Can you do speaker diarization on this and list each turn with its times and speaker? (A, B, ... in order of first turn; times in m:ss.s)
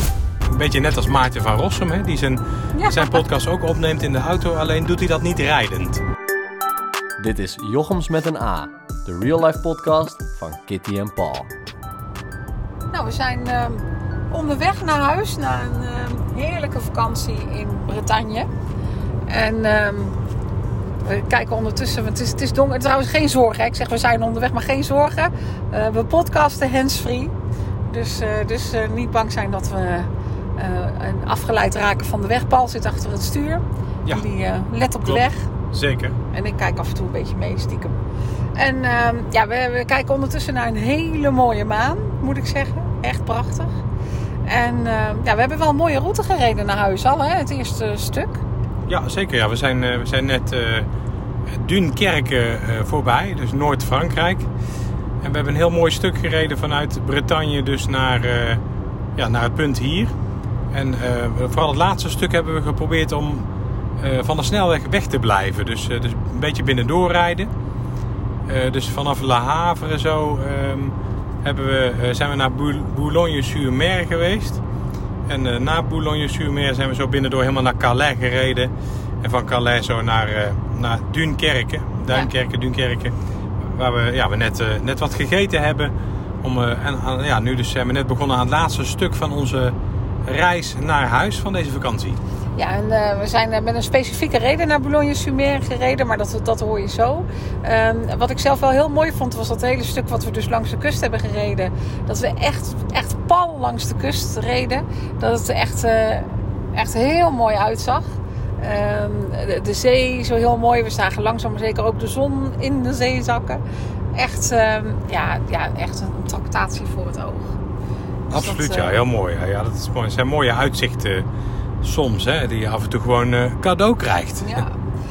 0:00.5-0:06.0 A
0:02.7-0:03.2 B
0:07.2-0:11.5 C
0:12.9-0:18.5 B
0:19.3-0:20.2 B
0:21.0-0:27.3 B
0:27.9-0:35.4 B
0:35.0-0:36.2 A
0:36.3-0:38.0 B
0:38.6-0:43.7 B
0:44.5-0:48.4 B
0:48.9-0:50.9 A
0:51.5-0:54.5 A
0:55.2-0:58.6 A
0:59.2-1:00.1 A
1:00.7-1:03.5 A
1:04.0-1:07.5 A
1:08.5-1:14.6 A
1:15.3-1:18.7 A
1:19.2-1:23.1 A
1:23.7-1:29.7 A
1:30.3-1:32.2 A
1:32.6-1:48.1 B
1:48.6-1:53.6 B
1:54.1-1:57.6 B
1:58.3-2:01.3 A
1:58.3-1:59.0 B
2:01.8-2:04.6 A
2:04.4-2:04.7 B